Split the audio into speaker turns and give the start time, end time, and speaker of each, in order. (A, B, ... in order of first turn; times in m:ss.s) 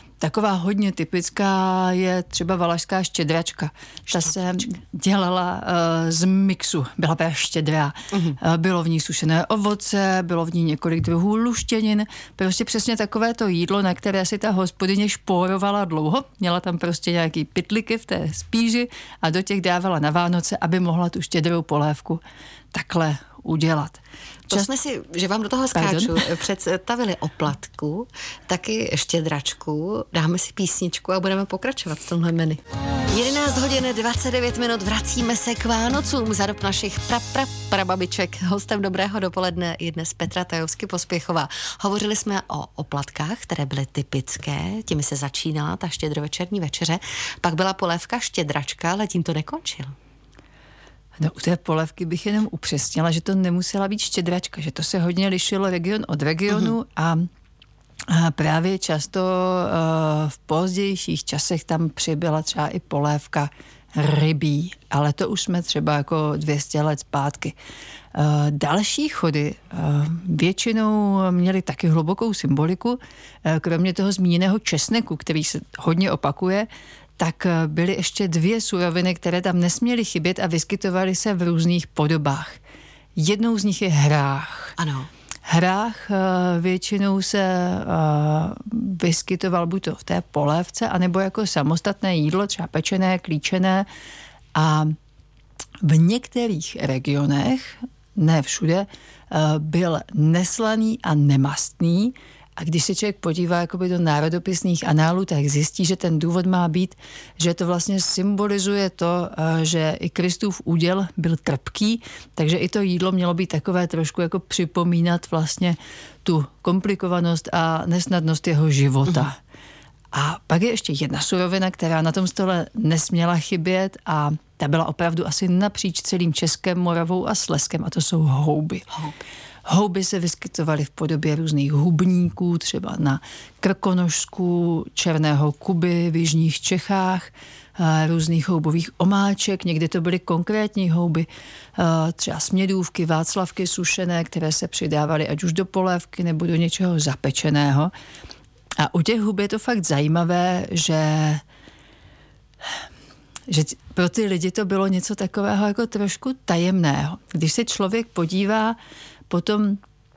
0:00.2-0:22.2 A
0:08.1-0:08.4 B
0:22.7-0:24.7 A
0:24.5-0:49.9 B
0:25.7-0:26.3 A
0:51.2-0:57.3 A
0:58.1-1:07.6 A
1:08.1-1:22.6 A
1:23.2-1:24.8 A
1:24.8-1:25.1 B
1:25.4-1:33.9 A
1:34.5-1:35.0 A
1:35.8-1:59.4 A
2:00.1-2:08.9 A
2:09.6-2:27.9 A
2:28.8-2:31.4 A
2:33.5-2:38.8 A
2:39.3-2:39.8 A